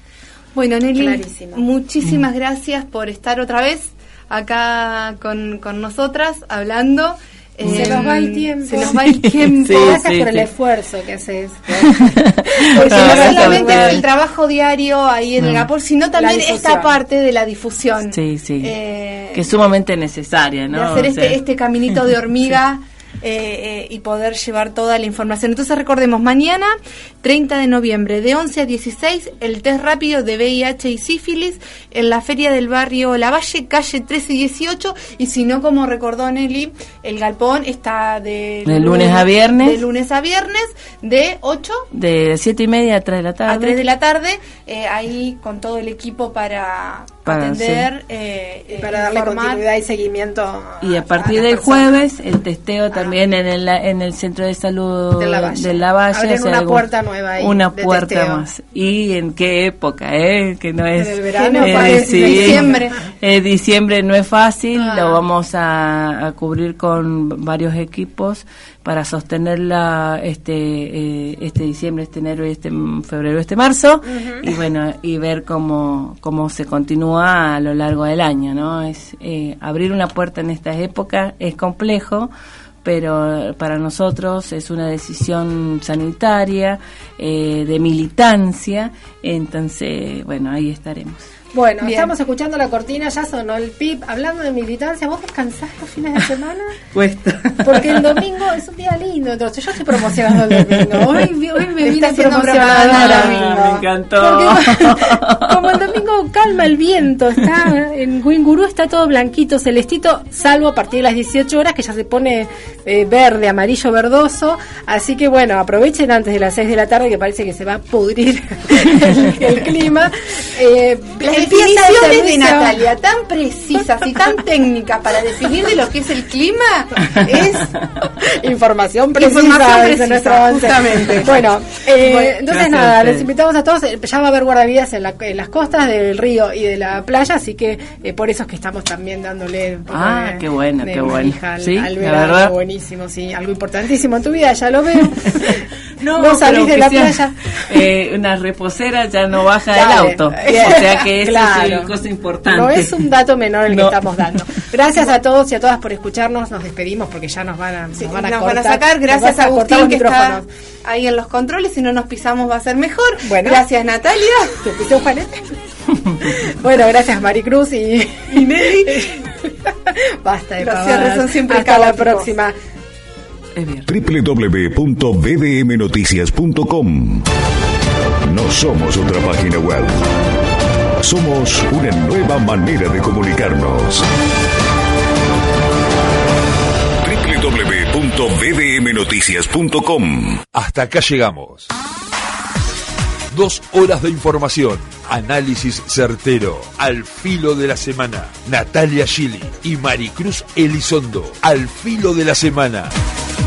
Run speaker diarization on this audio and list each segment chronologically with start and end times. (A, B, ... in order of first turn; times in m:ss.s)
0:00.5-0:10.0 A
0:01.0-0:01.6 B
0:07.6-0:09.1 B
0:07.6-0:08.0 C
0:08.8-0:10.5 C
0:09.6-0:14.0 B
0:11.9-0:14.0 C
0:12.8-0:19.5 A
0:15.4-0:15.7 C
0:16.1-0:17.0 B
0:18.1-0:18.7 C
0:19.3-0:21.4 C
0:20.7-0:41.8 A
0:38.6-0:39.8 C
0:41.9-0:43.8 C
0:43.5-0:49.6 A
0:47.2-0:47.9 C
0:48.8-0:52.0 B
0:50.8-0:56.8 C
0:55.2-0:58.4 B
0:57.4-1:22.3 C
1:01.0-1:02.8 B
1:01.3-1:02.9 A
1:04.7-1:05.2 B
1:22.8-1:31.2 C
1:31.5-1:36.8 B
1:31.8-1:32.1 A
1:36.9-1:38.2 C
1:37.6-1:43.6 B
1:40.1-1:41.3 C
1:41.8-1:43.8 A
1:42.7-1:45.8 C
1:44.2-2:02.8 B
2:01.2-2:07.6 A
2:07.1-2:07.7 B
2:08.3-2:27.5 B
2:09.2-2:11.4 A
2:12.0-2:12.4 A
2:12.5-2:13.3 C
2:19.9-2:22.5 C
2:25.3-2:33.0 C
2:29.7-2:31.9 B
2:32.5-2:40.4 B
2:33.7-2:34.4 C
2:37.9-2:44.6 A
2:43.2-2:43.6 B
2:44.6-2:45.6 B
2:46.3-2:52.5 B
2:48.3-2:49.2 A
2:50.6-2:52.3 A
2:53.5-2:53.9 C
2:53.9-2:57.2 D
2:58.3-3:00.0 D
3:01.0-3:04.0 D
3:07.0-3:10.4 D
3:10.5-3:11.7 E
3:13.3-3:22.9 E